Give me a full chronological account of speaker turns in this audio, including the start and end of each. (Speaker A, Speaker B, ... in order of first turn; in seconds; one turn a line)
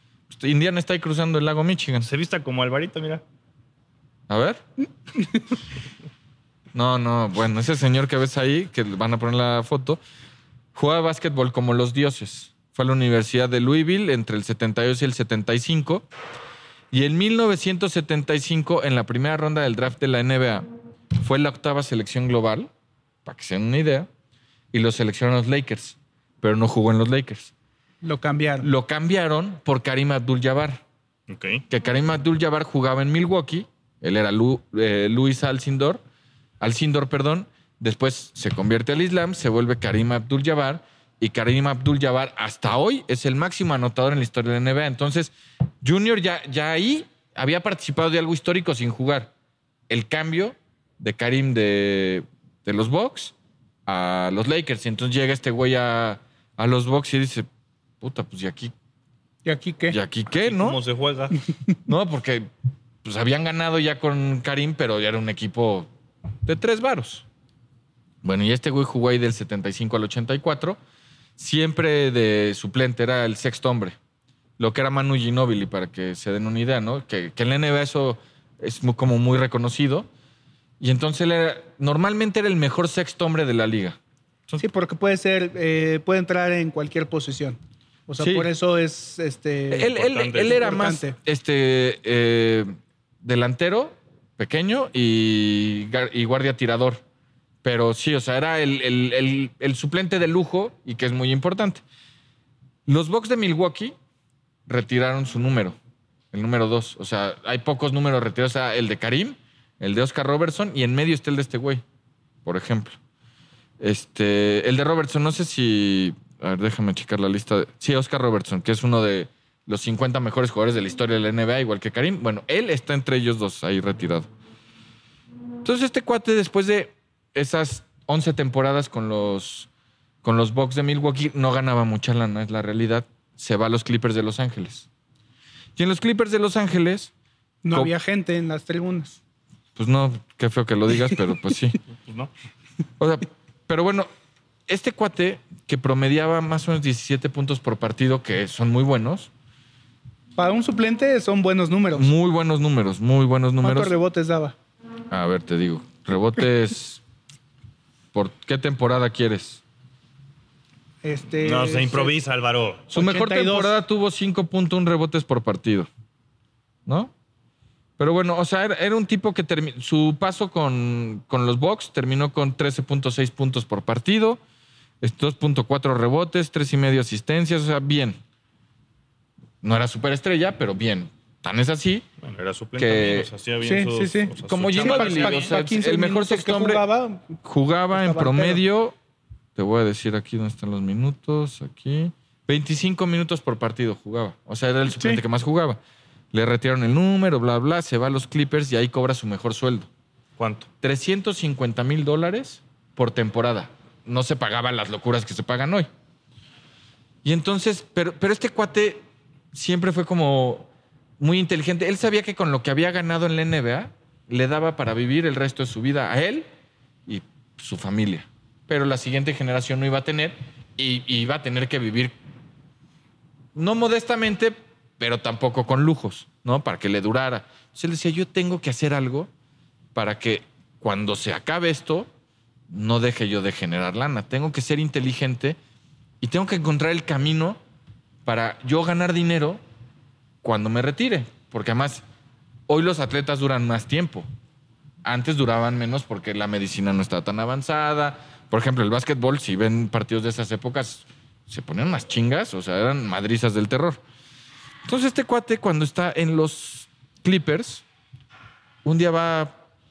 Speaker A: 0.3-2.1
Speaker B: 2.0-3.2
Speaker A: 4.3-4.6
Speaker A: 6.7-10.0
Speaker A: 10.7-16.0
Speaker A: 16.9-22.7
Speaker A: 23.2-24.1
Speaker A: 24.7-27.5
Speaker C: 28.0-28.7
Speaker A: 28.6-30.8
Speaker B: 31.3-31.6
Speaker A: 31.7-36.0
Speaker A: 36.6-49.3
Speaker A: 49.9-53.3
Speaker A: 53.9-57.5
Speaker A: 58.0-58.7
Speaker C: 59.4-60.0
Speaker A: 59.9-60.8
Speaker B: 60.3-61.4
Speaker A: 61.9-62.5
Speaker A: 63.0-65.9
Speaker A: 66.4-67.2
Speaker A: 68.2-70.8
Speaker A: 71.4-74.0
Speaker A: 74.6-80.1
Speaker A: 80.8-84.6
Speaker C: 84.6-91.2
Speaker A: 88.2-88.5
Speaker A: 89.7-97.0
Speaker B: 89.9-90.7
Speaker A: 97.6-101.8
Speaker A: 102.8-103.9
Speaker A: 104.7-105.8
Speaker A: 106.3-111.8
Speaker A: 112.4-113.0
Speaker A: 113.8-124.3
Speaker A: 125.6-129.7
Speaker A: 130.2-134.9
Speaker A: 135.8-137.1
Speaker C: 137.6-139.2
Speaker A: 139.8-141.8
Speaker B: 141.9-142.3
Speaker A: 143.0-144.1
Speaker A: 144.7-149.3
Speaker C: 150.4-152.1
Speaker A: 151.9-153.9
Speaker C: 153.6-154.6
Speaker A: 155.1-157.0
Speaker A: 158.1-159.6
Speaker C: 161.0-162.1
Speaker B: 161.4-162.9
Speaker C: 162.9-163.8
Speaker A: 162.9-165.9
Speaker A: 166.8-167.1
Speaker A: 168.0-174.4
Speaker A: 175.0-178.2
Speaker A: 179.6-182.1
Speaker B: 182.2-185.5
Speaker A: 182.8-183.3
Speaker C: 183.6-187.3
Speaker A: 184.5-186.8
Speaker A: 187.4-188.9
Speaker C: 187.9-188.6
Speaker A: 189.6-195.8
Speaker C: 194.9-195.2
Speaker A: 196.3-199.9
Speaker B: 200.4-200.7
Speaker A: 200.8-205.9
Speaker A: 207.2-216.5
Speaker A: 217.1-222.2
Speaker A: 223.5-229.3
Speaker A: 229.9-232.1
Speaker A: 232.7-235.6
Speaker A: 236.2-237.6
Speaker A: 238.2-239.6
Speaker A: 240.4-242.0
Speaker A: 242.7-244.3
Speaker A: 245.0-254.0
Speaker A: 254.8-257.8
Speaker A: 258.8-259.6